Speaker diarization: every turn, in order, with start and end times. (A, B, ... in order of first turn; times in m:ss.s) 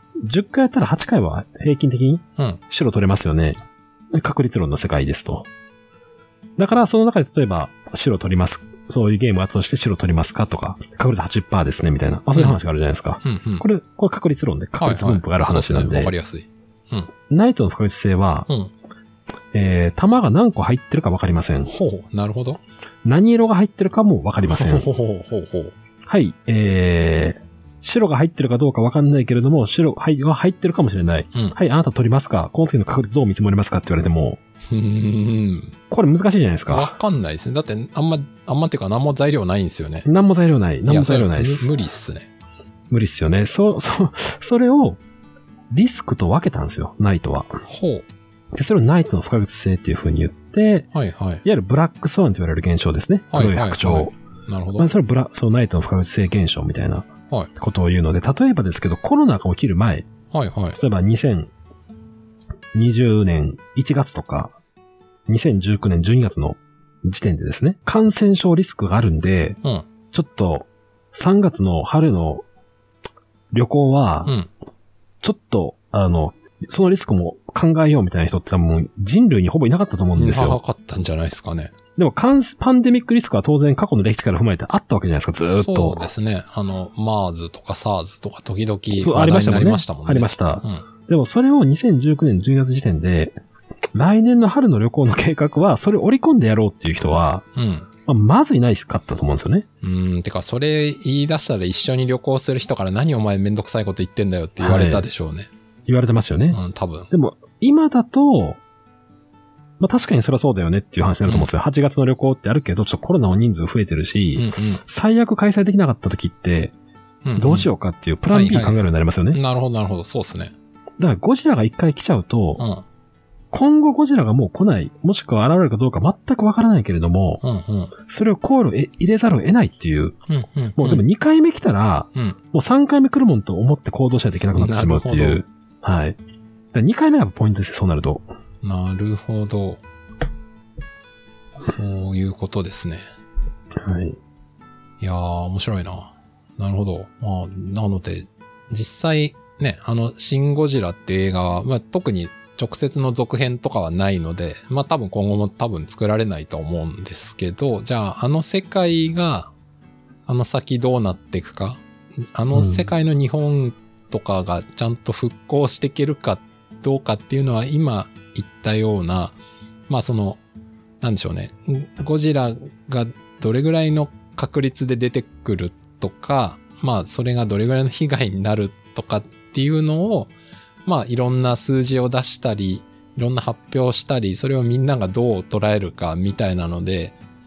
0:00.2-0:03.6 A
0:04.1-0:05.5 A
0:06.6-0:16.1 A
0:12.3-0:12.6 B
0:13.2-0:13.6 B
0:14.8-0:17.1 B
0:17.3-0:18.5 A
0:19.5-0:21.7 A
0:21.7-0:22.6 B
0:23.0-0:24.9 A
0:24.4-0:25.7 B
0:26.1-0:34.4 A
0:34.7-0:35.7 B
0:35.9-0:37.0 A
0:36.7-0:40.1 B
0:40.0-0:41.7 A
0:40.9-0:42.3 B
0:42.9-0:45.0 A
0:45.7-0:47.6 A
0:47.7-0:48.0 B
0:48.5-0:50.9 A
0:50.9-0:51.4 B
0:51.4-0:54.1 A
0:53.3-0:54.9 B
0:54.8-1:00.1 A
1:00.3-1:00.8 B
1:00.7-1:01.5 A
1:02.7-1:04.5 A
1:05.3-1:09.6 A
1:10.1-1:12.4 A
1:13.5-1:14.3 A
1:14.2-1:14.5 B
1:15.2-1:20.6 A
1:20.1-1:21.7 B
1:22.0-1:26.1 A
1:25.4-1:30.8 B
1:29.0-1:33.3 A
1:33.9-1:37.4 A
1:37.6-1:37.9 B
1:38.1-1:39.7 A
1:39.8-1:45.5 B
1:44.6-1:45.1 A
1:45.9-1:46.6 A
1:46.5-1:47.1 B
1:47.1-1:48.6 A
1:49.8-1:56.7 A
1:51.2-1:51.5 B
1:54.4-1:54.8 B
1:57.2-1:57.7 B
1:57.4-1:59.4 A
1:58.3-2:00.5 B
2:01.0-2:02.6 A
2:02.6-2:02.8 B
2:03.5-2:07.4 A
2:07.4-2:07.9 B
2:08.1-2:10.2 A
2:10.3-2:11.0 B
2:10.8-2:16.2 A
2:14.6-2:15.4 B
2:16.7-2:18.2 A
2:18.6-2:19.8 B
2:21.6-2:23.0 B
2:23.8-2:24.2 A
2:25.0-2:39.5 B
2:40.3-2:41.8 B
2:42.3-2:49.4 B
2:42.5-2:42.9 A
2:49.9-2:50.4 B
2:51.0-3:00.3 B
3:00.8-3:07.2 B